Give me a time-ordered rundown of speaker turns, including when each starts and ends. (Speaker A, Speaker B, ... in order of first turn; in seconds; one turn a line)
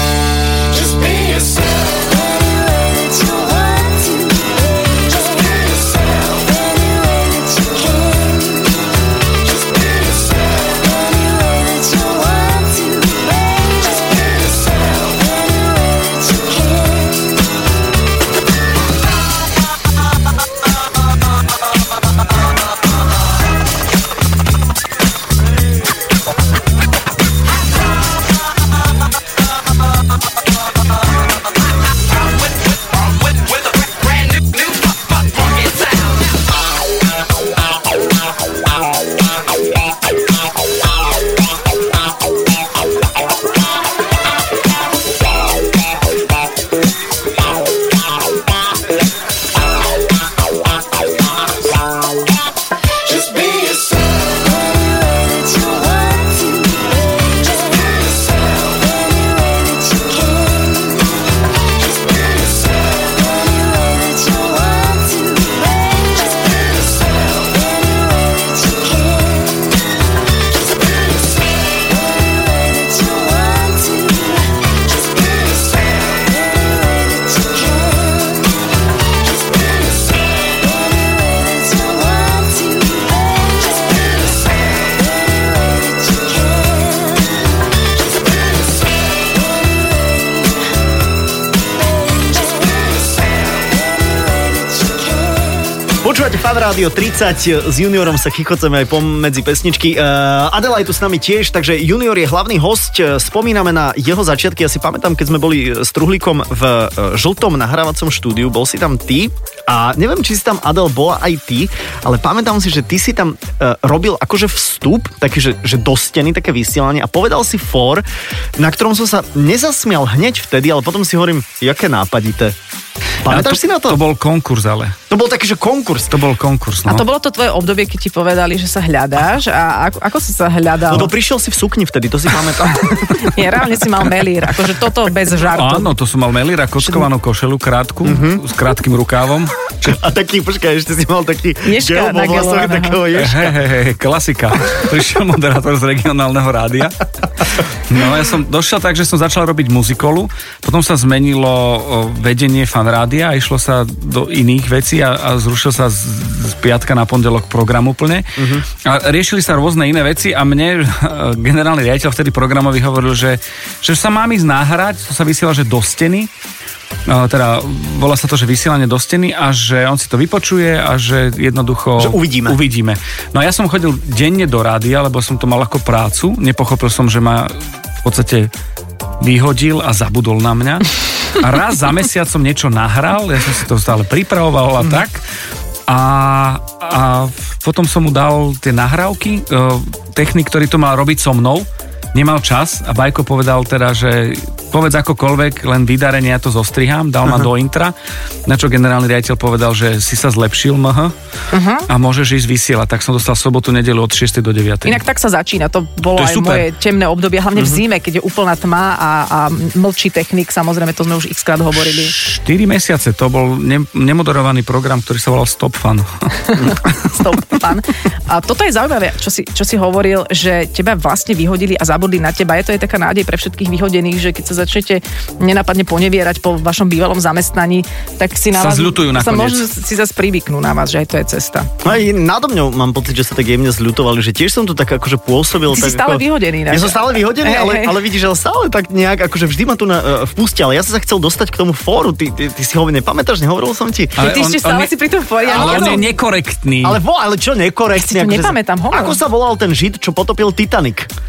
Speaker A: 0.7-17.5
Speaker A: 53.0-90.7
Speaker A: 91.6-95.9
Speaker B: 96.0-118.0
Speaker B: 118.6-122.5
Speaker B: 123.2-124.0
Speaker C: 123.2-125.0
Speaker B: 125.1-126.2
Speaker C: 126.1-127.0
Speaker D: 126.9-131.1
Speaker B: 130.9-133.2
Speaker D: 133.1-135.9
Speaker C: 135.5-140.0
Speaker D: 136.8-137.1
Speaker B: 138.0-138.4
Speaker B: 139.8-143.6
Speaker D: 141.6-143.0
Speaker C: 143.1-166.3
Speaker B: 158.4-158.7
Speaker C: 167.1-178.5
Speaker B: 172.0-172.6
Speaker C: 179.2-185.2
Speaker C: 185.9-197.9
Speaker C: 198.4-201.1
Speaker D: 201.5-201.9
Speaker C: 201.9-205.0
Speaker D: 204.8-212.1
Speaker C: 206.2-206.7
Speaker C: 211.8-216.5
Speaker D: 216.5-231.7
Speaker C: 228.5-229.6
Speaker B: 231.8-244.2
Speaker D: 235.7-238.0
Speaker D: 244.2-246.1
Speaker C: 244.2-244.9
Speaker B: 245.4-246.1
Speaker C: 245.5-247.0
Speaker B: 246.8-251.1
Speaker D: 247.9-249.2